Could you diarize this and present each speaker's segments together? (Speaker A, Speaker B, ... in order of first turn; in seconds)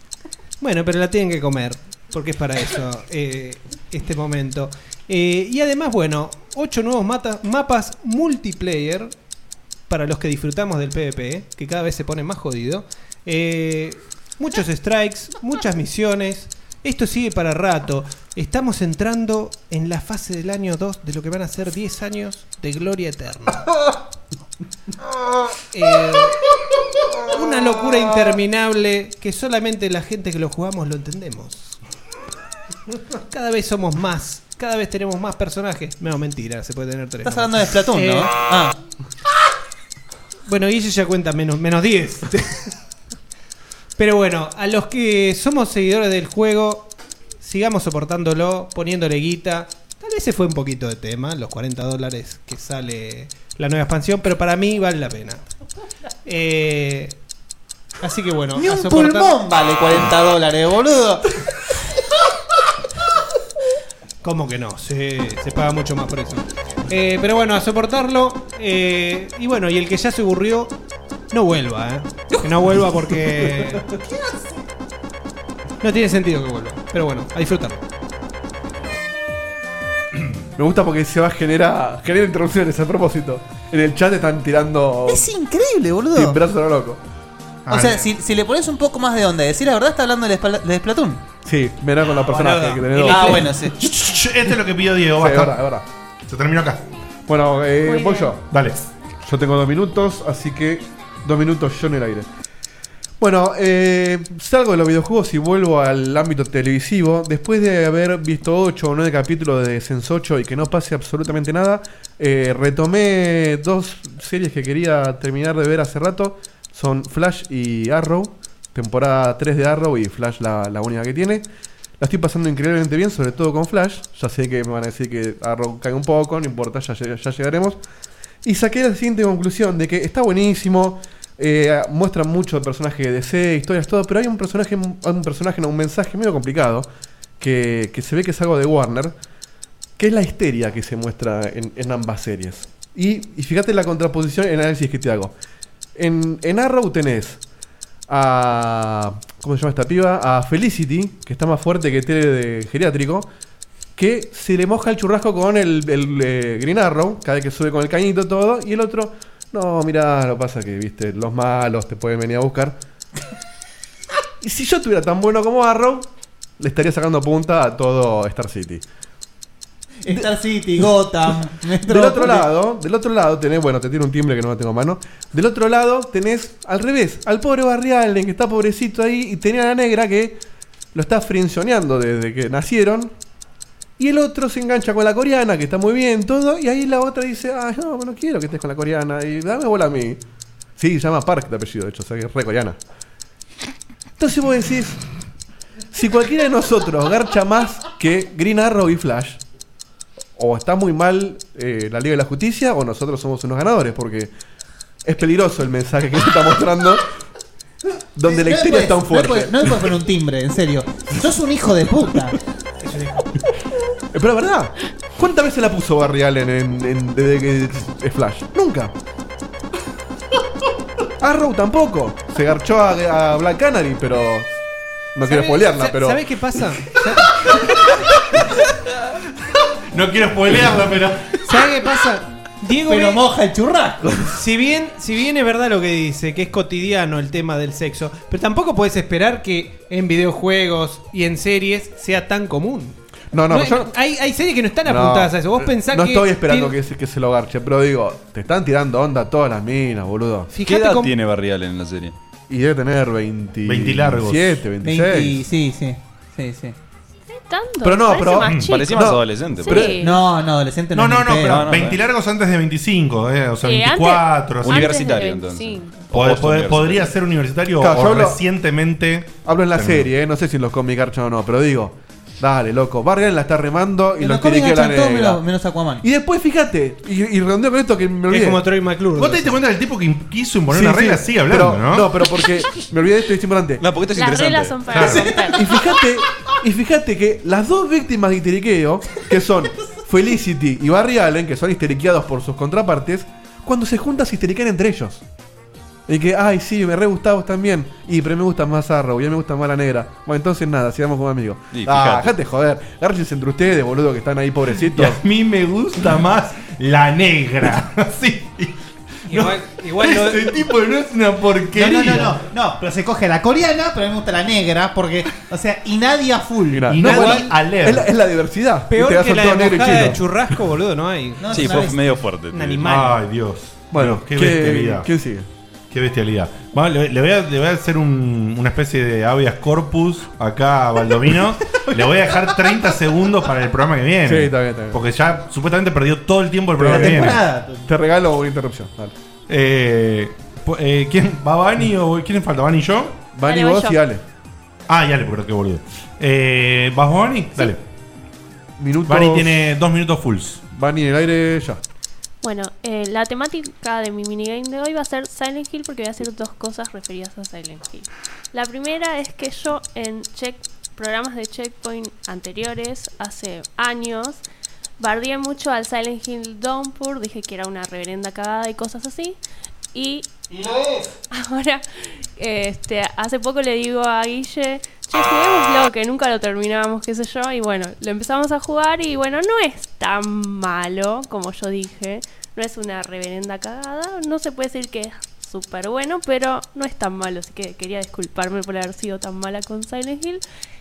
Speaker A: 0.6-9.1, 9.9-23.7, 25.7-26.4, 27.3-31.8, 33.3-38.3, 40.5-42.7, 44.0-55.5, 56.2-57.2, 58.0-59.4, 64.2-70.7, 71.3-73.8, 75.8-77.8, 92.1-93.5, 212.8-213.3, 225.2-227.4, 231.4-233.2, 234.3-243.0, 243.5-246.7, 250.5-251.1, 278.3-279.6, 309.3-310.6, 317.0-317.5, 318.9-323.2
Speaker B: 37.2-38.7, 58.5-61.3, 85.1-86.4, 87.7-91.2, 93.0-93.8, 170.0-172.5, 208.2-212.4, 232.9-234.1, 254.8-256.8, 260.0-261.8, 274.2-276.0, 285.0-285.5, 311.7-317.0, 321.4-322.2, 336.9-337.9
Speaker C: 80.6-85.3, 86.1-87.0, 91.5-93.6, 95.2-95.8, 97.3-98.4, 99.2-102.3, 103.2-121.5, 122.0-127.8, 128.4-136.9, 137.4-139.2, 140.0-145.3, 145.9-147.4, 148.1-153.3, 154.0-162.8, 164.4-168.8, 171.9-180.4, 180.9-183.1, 184.0-190.2, 190.8-192.8, 194.2-195.0, 195.9-199.4, 200.4-204.3, 205.0-207.0, 208.2-209.9, 214.1-218.9, 221.2-224.6, 225.2-226.2, 243.3-243.9, 244.8-250.5, 252.5-255.4, 257.8-260.0, 267.8-268.4, 269.4-275.4, 276.0-278.6, 280.7-283.9, 285.0-295.2, 296.1-305.2, 316.7-320.2, 323.9-325.5, 331.9-332.5, 334.2-335.0, 336.8-339.1, 343.3-344.2, 348.8-349.7, 350.7-351.8
Speaker D: 87.7-88.1, 93.8-95.6, 96.2-96.8, 98.5-98.9, 229.9-231.4, 253.7-254.6, 258.5-258.7, 260.9-265.0, 266.1-270.1, 279.2-282.1, 284.9-285.2, 304.9-308.8, 309.3-312.4, 316.9-318.1, 322.8-325.1, 325.9-337.4, 339.5-343.2, 344.9-347.8, 349.1-350.6
Speaker E: 97.8-98.3, 257.3-260.2, 263.6-266.0, 284.1-285.6, 343.4-344.0, 352.4-364.4, 365.0-369.4, 369.9-370.4, 371.3-390.4
Speaker F: 250.6-252.2, 258.7-260.0, 261.4-262.0, 264.6-267.1, 283.8-285.3, 301.7-302.3, 321.5-322.9